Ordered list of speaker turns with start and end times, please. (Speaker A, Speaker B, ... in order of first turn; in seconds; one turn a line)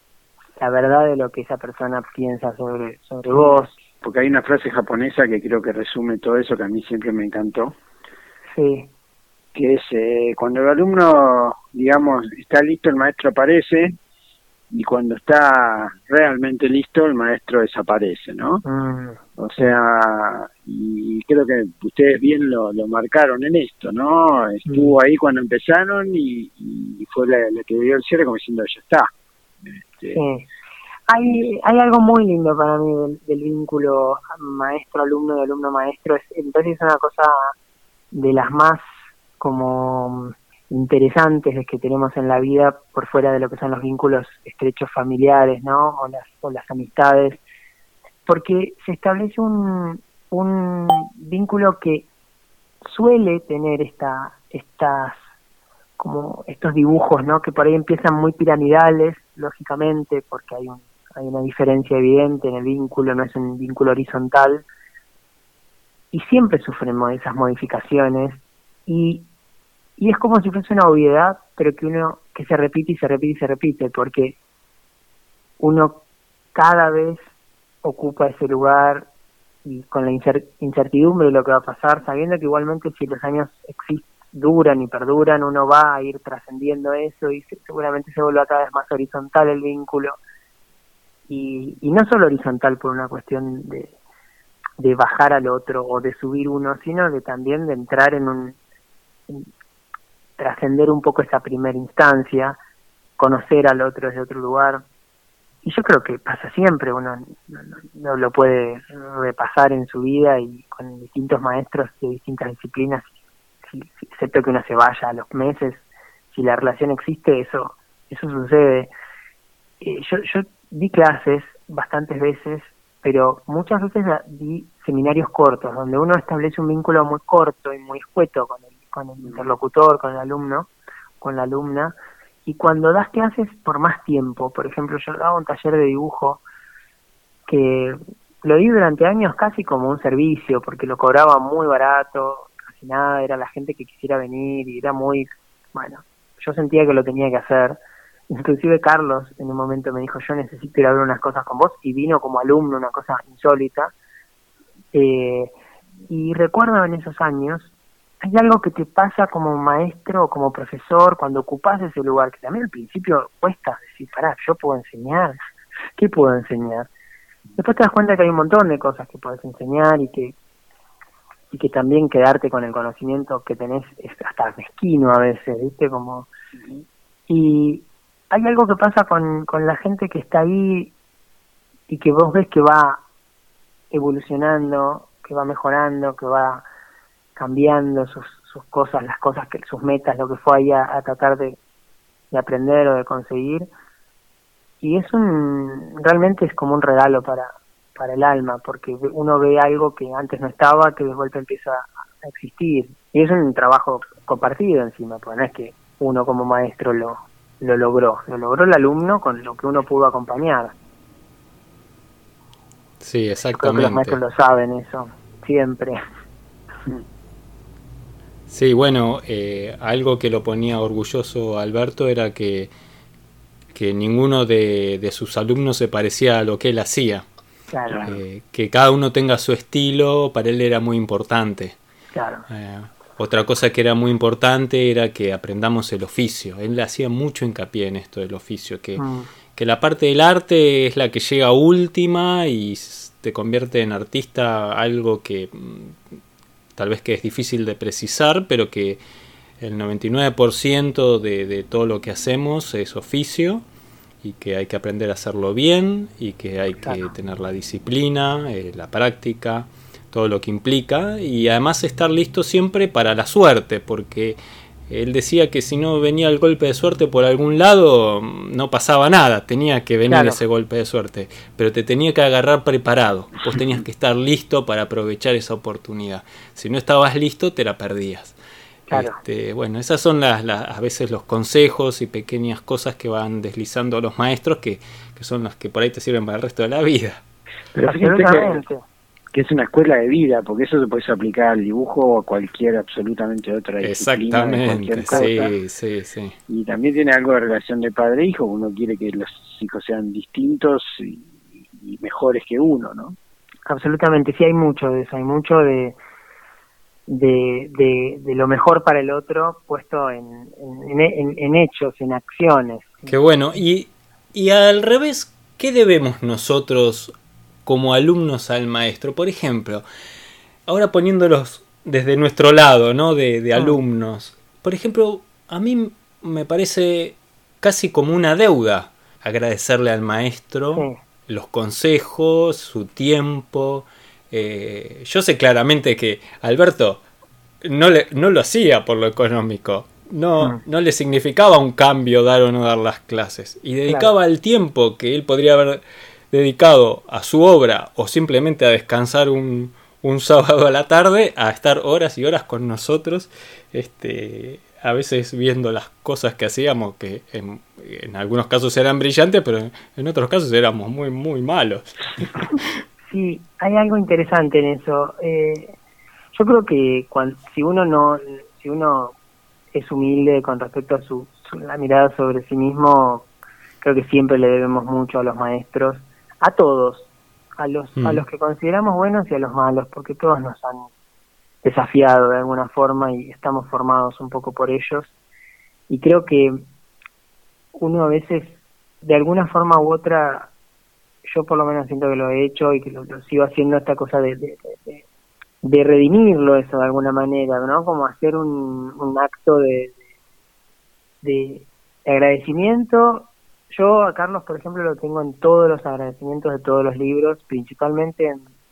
Speaker A: 0.6-3.8
Speaker B: 4.0-7.8
Speaker A: 8.5-8.9
Speaker B: 9.5-14.0
Speaker B: 14.7-18.6
Speaker A: 18.6-19.2
Speaker B: 19.4-29.1
Speaker B: 29.6-30.2
Speaker A: 30.1-30.4
Speaker A: 31.1-37.5
Speaker A: 38.1-38.8
Speaker A: 39.4-47.4
Speaker A: 48.2-52.1
Speaker A: 52.8-55.2
Speaker A: 56.0-64.7
Speaker A: 66.1-69.2
Speaker A: 70.0-74.3
Speaker A: 75.6-76.0
Speaker A: 76.5-77.2
Speaker A: 77.8-79.1
Speaker A: 79.6-90.2
Speaker A: 91.3-93.9
Speaker A: 94.8-98.6
Speaker A: 100.4-102.6
Speaker A: 103.2-104.8
Speaker A: 105.6-118.9
Speaker A: 119.8-130.7
Speaker A: 131.2-131.9
Speaker A: 132.4-136.4
Speaker A: 137.5-147.8
Speaker A: 148.3-153.9
Speaker A: 154.9-155.5
Speaker A: 156.1-165.4
Speaker A: 166.0-166.9
Speaker A: 167.6-170.3
Speaker A: 171.5-176.3
Speaker A: 177.3-180.9
Speaker A: 181.9-183.0
Speaker A: 183.9-186.6
Speaker A: 187.3-191.6
Speaker A: 192.3-193.7
Speaker A: 194.8-210.7
Speaker C: 213.0-214.2
Speaker A: 213.5-216.0
Speaker C: 218.5-222.7
Speaker C: 223.7-227.2
Speaker A: 227.7-228.0
Speaker B: 227.9-228.2
Speaker C: 228.1-231.8
Speaker A: 232.1-232.4
Speaker C: 232.5-239.0
Speaker A: 239.0-239.3
Speaker C: 239.5-246.0
Speaker C: 246.8-249.0
Speaker C: 249.6-253.6
Speaker C: 254.2-264.4
Speaker C: 264.9-278.3
Speaker A: 270.1-270.4
Speaker A: 278.9-279.2
Speaker C: 278.9-287.2
Speaker B: 287.7-288.6
Speaker A: 288.0-288.8
Speaker B: 289.3-295.5
Speaker C: 293.8-296.4
Speaker A: 295.1-295.4
Speaker B: 296.5-303.1
Speaker A: 303.7-305.9
Speaker A: 307.1-313.1
Speaker C: 313.1-317.1
Speaker C: 317.6-319.8
Speaker C: 320.7-337.0
Speaker C: 337.6-362.7
Speaker A: 363.1-365.7
Speaker A: 366.3-369.1
Speaker A: 369.7-373.2
Speaker A: 373.8-380.9
Speaker C: 378.0-378.2
Speaker A: 381.6-385.1
Speaker A: 385.9-386.6
Speaker A: 387.7-390.5
Speaker A: 391.2-395.0
Speaker A: 395.6-400.0
Speaker A: 401.2-408.4